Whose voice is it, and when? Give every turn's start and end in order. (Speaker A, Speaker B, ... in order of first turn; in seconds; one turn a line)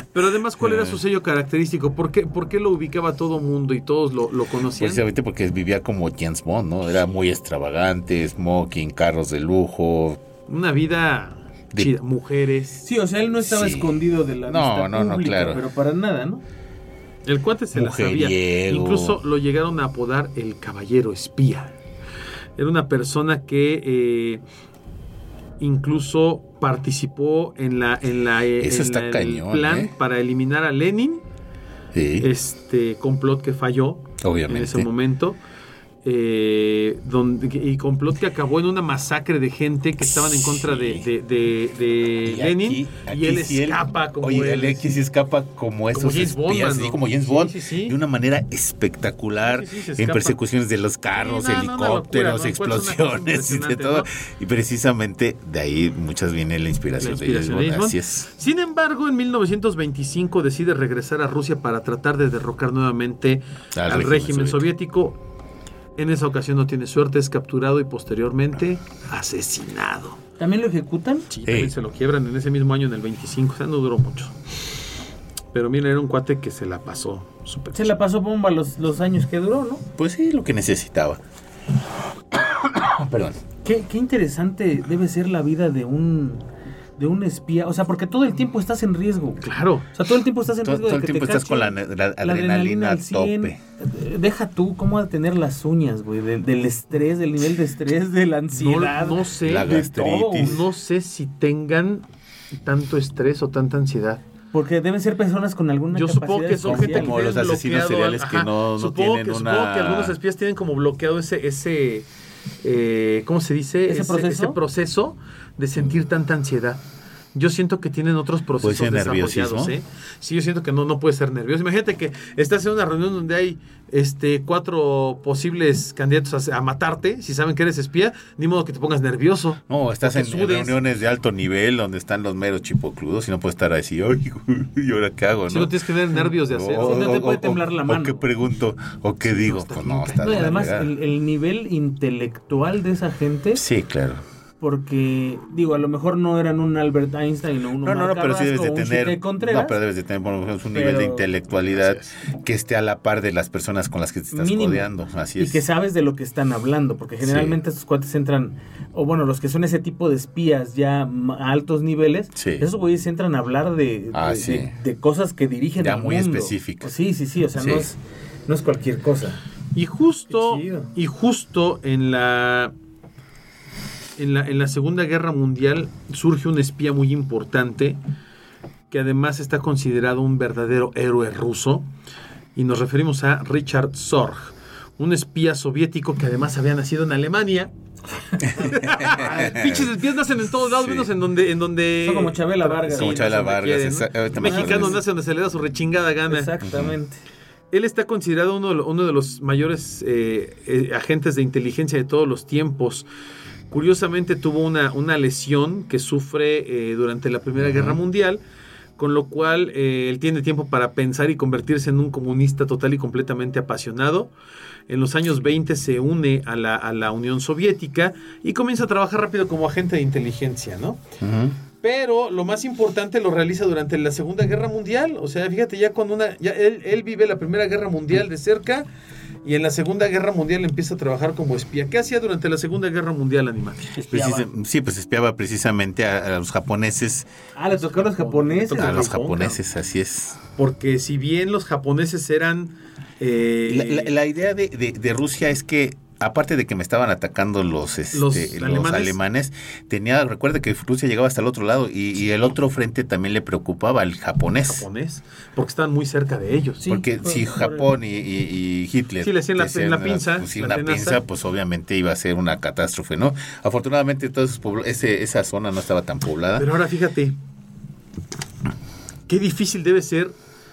Speaker A: 0.1-5.0
Speaker B: 0.6-1.0
Speaker B: 4.8-10.2
Speaker A: 10.5-12.8
Speaker C: 12.8-16.4
Speaker B: 13.4-15.6
Speaker A: 17.2-21.7
Speaker B: 17.7-19.2
Speaker A: 22.6-24.4
Speaker A: 25.6-31.2
Speaker B: 28.6-29.9
Speaker B: 31.9-32.3
Speaker A: 32.2-35.4
Speaker B: 34.2-34.9
Speaker A: 36.0-44.9
Speaker B: 40.0-41.1
Speaker B: 42.2-58.3
Speaker A: 45.9-48.0
Speaker A: 49.4-50.4
Speaker A: 51.1-54.1
Speaker A: 57.0-65.2
Speaker B: 63.7-64.7
Speaker A: 66.0-70.2
Speaker C: 70.4-71.3
Speaker A: 71.3-74.3
Speaker B: 71.4-71.7
Speaker A: 75.5-78.0
Speaker C: 77.7-79.8
Speaker B: 80.0-81.2
Speaker B: 82.3-83.4
Speaker C: 83.6-86.4
Speaker C: 87.0-100.6
Speaker A: 89.4-89.9
Speaker B: 90.6-93.6
Speaker A: 98.5-102.1
Speaker B: 99.4-100.6
Speaker A: 102.6-104.2
Speaker C: 104.5-107.2
Speaker A: 105.9-112.1
Speaker B: 106.6-110.2
Speaker A: 112.6-116.8
Speaker C: 113.9-114.6
Speaker A: 117.3-130.8
Speaker B: 118.6-119.7
Speaker B: 129.7-140.9
Speaker A: 135.5-137.3
Speaker C: 136.7-138.2
Speaker A: 139.3-140.7
Speaker C: 140.2-143.6
Speaker B: 143.6-144.2
Speaker C: 144.6-149.8
Speaker B: 147.8-155.6
Speaker C: 150.7-151.3
Speaker C: 154.3-169.4
Speaker B: 157.2-157.6
Speaker B: 162.3-162.7
Speaker B: 164.1-164.7
Speaker B: 165.8-166.9
Speaker B: 167.5-167.9
Speaker A: 169.7-172.7
Speaker C: 170.3-170.9
Speaker A: 174.2-178.0
Speaker A: 178.9-181.9
Speaker A: 182.6-187.7
Speaker A: 188.4-196.5
Speaker B: 188.5-189.9
Speaker B: 190.6-191.1
Speaker C: 192.0-193.5
Speaker B: 192.9-195.0
Speaker C: 194.4-195.0
Speaker C: 196.3-197.2
Speaker B: 196.6-196.9
Speaker A: 197.7-203.1
Speaker A: 203.7-208.4
Speaker B: 207.6-208.0
Speaker A: 209.0-214.3
Speaker A: 214.9-221.0
Speaker B: 221.2-221.6
Speaker A: 221.8-228.9
Speaker A: 229.4-233.9
Speaker C: 233.9-234.5
Speaker B: 234.1-237.3
Speaker C: 237.6-239.4
Speaker A: 237.8-239.6
Speaker B: 238.8-240.4
Speaker A: 240.6-244.1
Speaker B: 243.7-254.9
Speaker A: 248.1-249.2
Speaker A: 254.7-256.8
Speaker C: 256.8-257.9
Speaker B: 256.9-266.7
Speaker A: 259.2-261.2
Speaker A: 266.6-267.4
Speaker A: 269.3-270.4